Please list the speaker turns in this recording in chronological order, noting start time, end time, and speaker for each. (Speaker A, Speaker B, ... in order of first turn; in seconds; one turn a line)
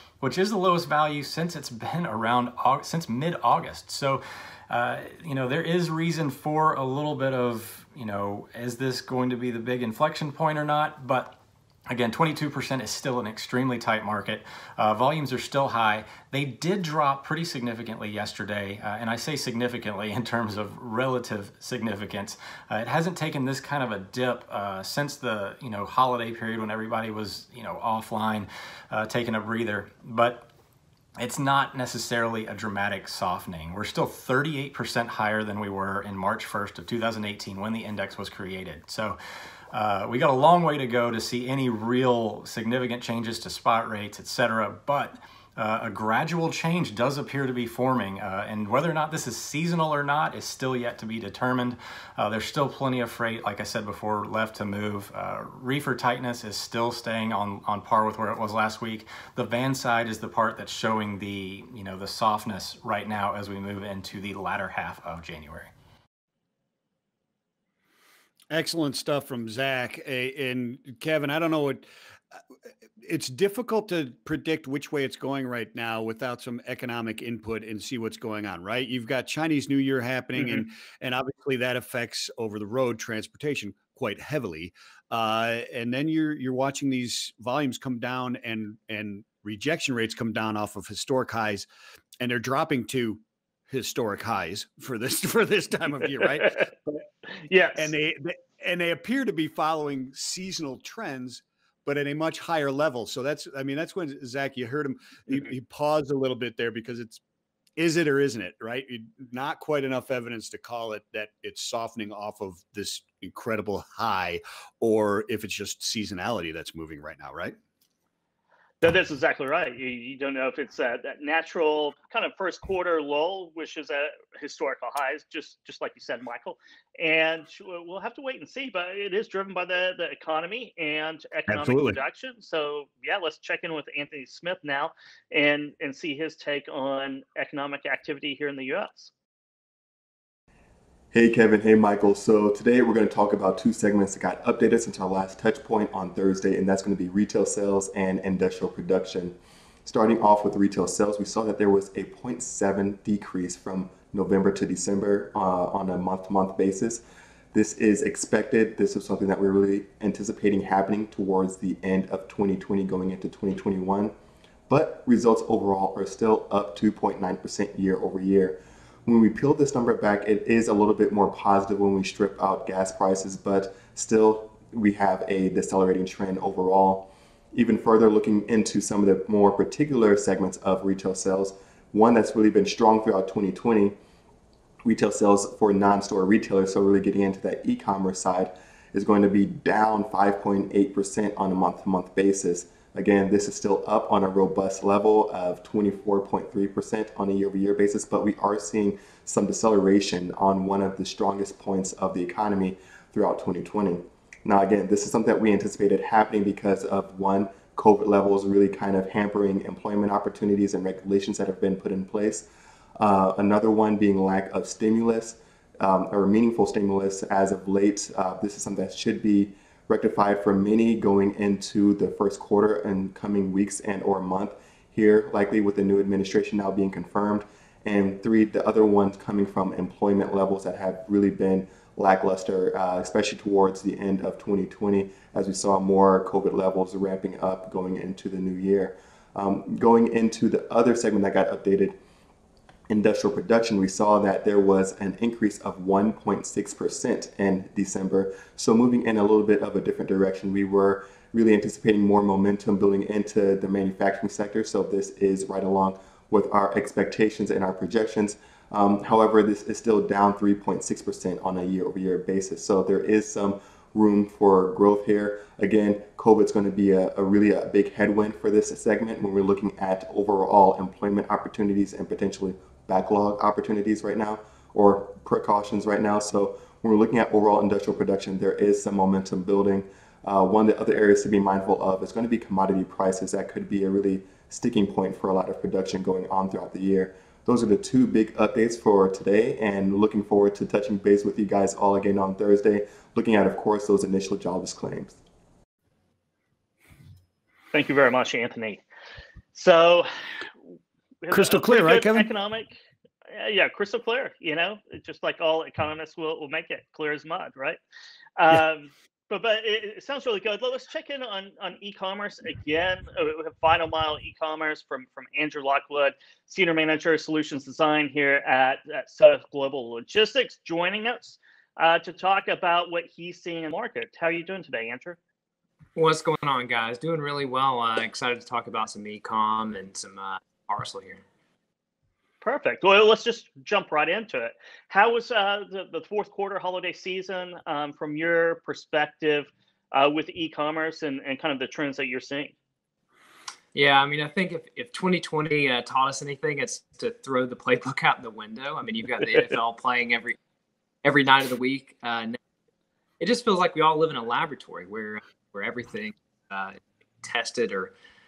Speaker A: 0.2-30.5
Speaker A: 31.2-39.2
Speaker A: 39.7-65.7
Speaker B: 68.5-71.8
Speaker B: 73.0-91.7
Speaker B: 92.2-97.0
Speaker C: 97.5-97.9
Speaker B: 97.7-107.2
Speaker B: 107.8-117.5
Speaker C: 118.8-139.1
Speaker B: 131.5-132.0
Speaker D: 141.1-164.1
Speaker D: 164.7-183.9
Speaker D: 184.8-212.4
Speaker D: 213.0-241.9
Speaker D: 242.9-295.2
Speaker C: 297.7-298.8
Speaker C: 299.5-300.1
Speaker C: 301.2-302.7
Speaker B: 301.3-302.3
Speaker C: 303.3-307.8
Speaker C: 308.4-325.2
Speaker E: 325.9-331.2
Speaker C: 332.4-342.5
Speaker E: 343.7-350.4
Speaker E: 351.0-352.4
Speaker E: 353.2-357.9